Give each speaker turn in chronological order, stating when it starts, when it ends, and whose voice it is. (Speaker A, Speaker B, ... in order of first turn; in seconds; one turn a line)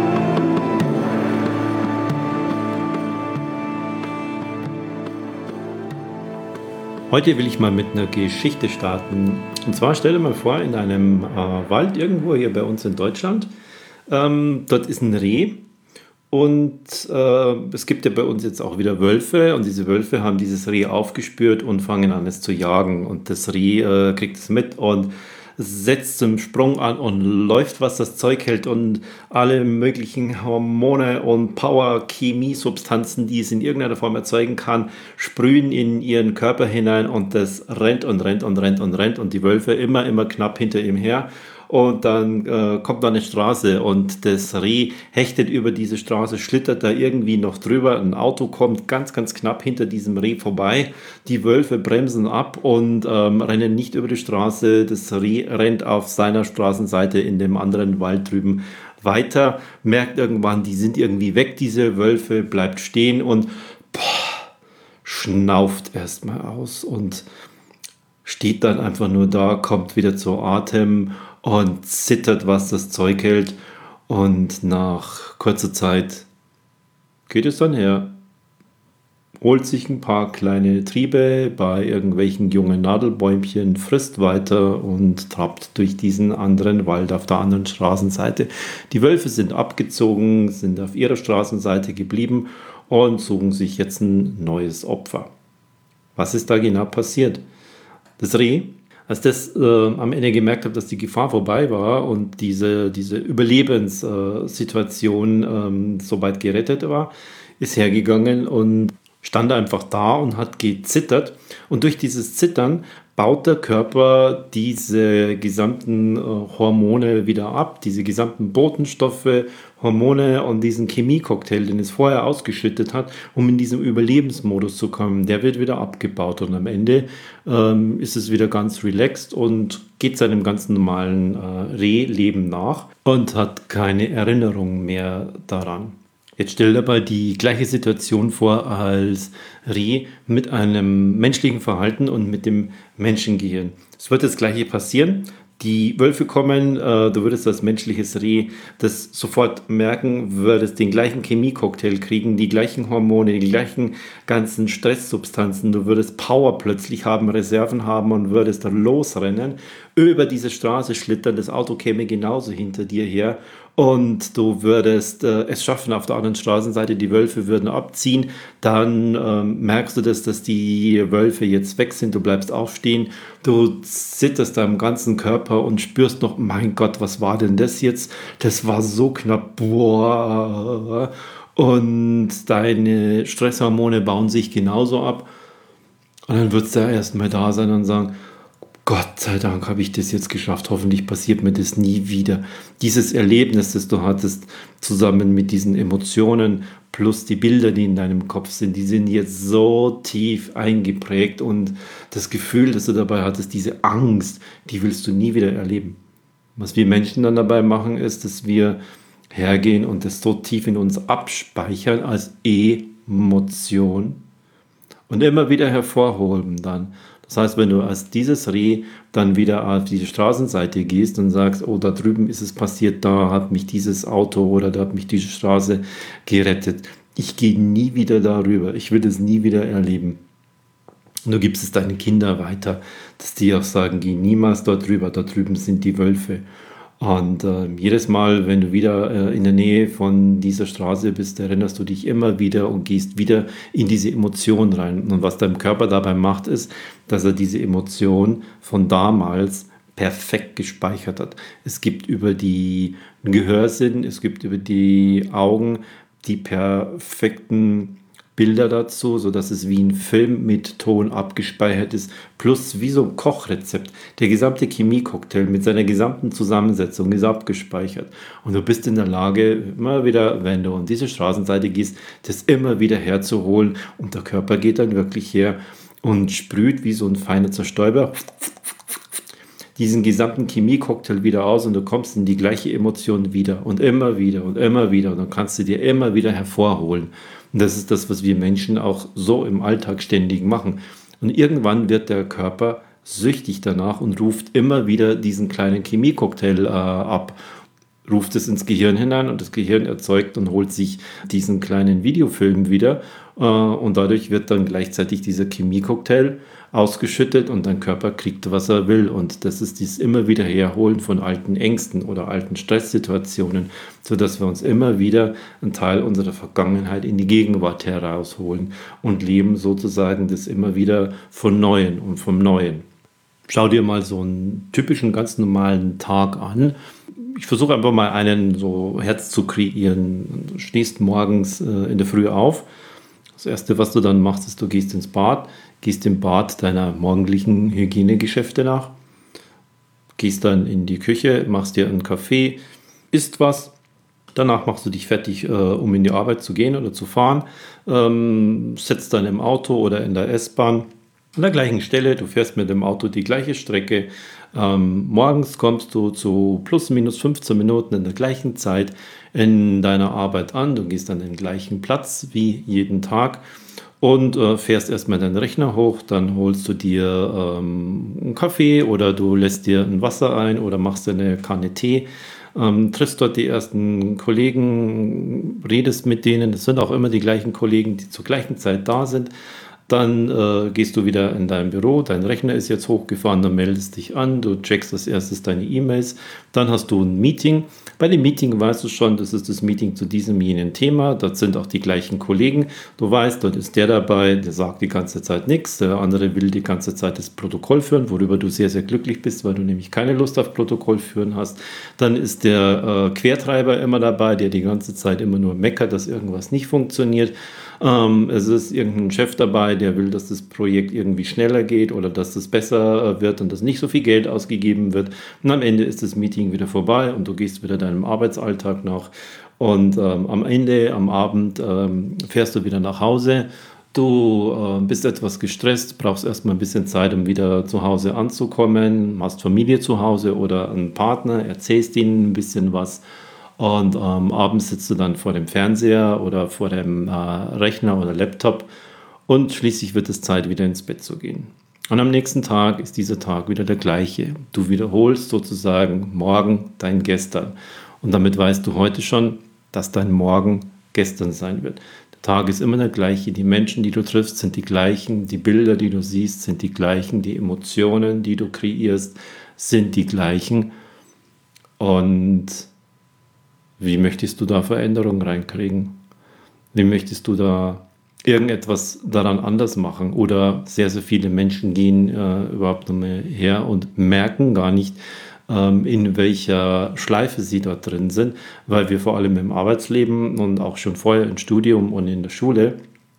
Speaker A: 7.1-13.5
Speaker A: 14.1-15.6
Speaker A: 16.3-64.5
Speaker A: 65.0-67.3
Speaker A: 68.2-76.3
Speaker A: 77.3-78.1
Speaker A: 79.4-95.3
Speaker A: 96.2-97.4
Speaker A: 98.2-185.3
Speaker A: 186.3-188.1
Speaker A: 188.8-206.0
Speaker A: 206.6-208.8
Speaker A: 209.3-214.2
Speaker A: 215.1-230.2
Speaker A: 231.2-236.4
Speaker A: 237.0-278.7
Speaker A: 279.8-297.4
Speaker A: 298.1-322.9
Speaker A: 323.5-332.7
Speaker A: 333.4-338.9
Speaker A: 340.2-342.6
Speaker A: 343.1-343.7
Speaker A: 344.4-363.4
Speaker A: 364.0-379.3
Speaker A: 379.9-433.0
Speaker A: 433.6-438.7
Speaker A: 439.3-460.7
Speaker A: 461.8-462.7
Speaker A: 463.8-465.9
Speaker A: 466.7-482.8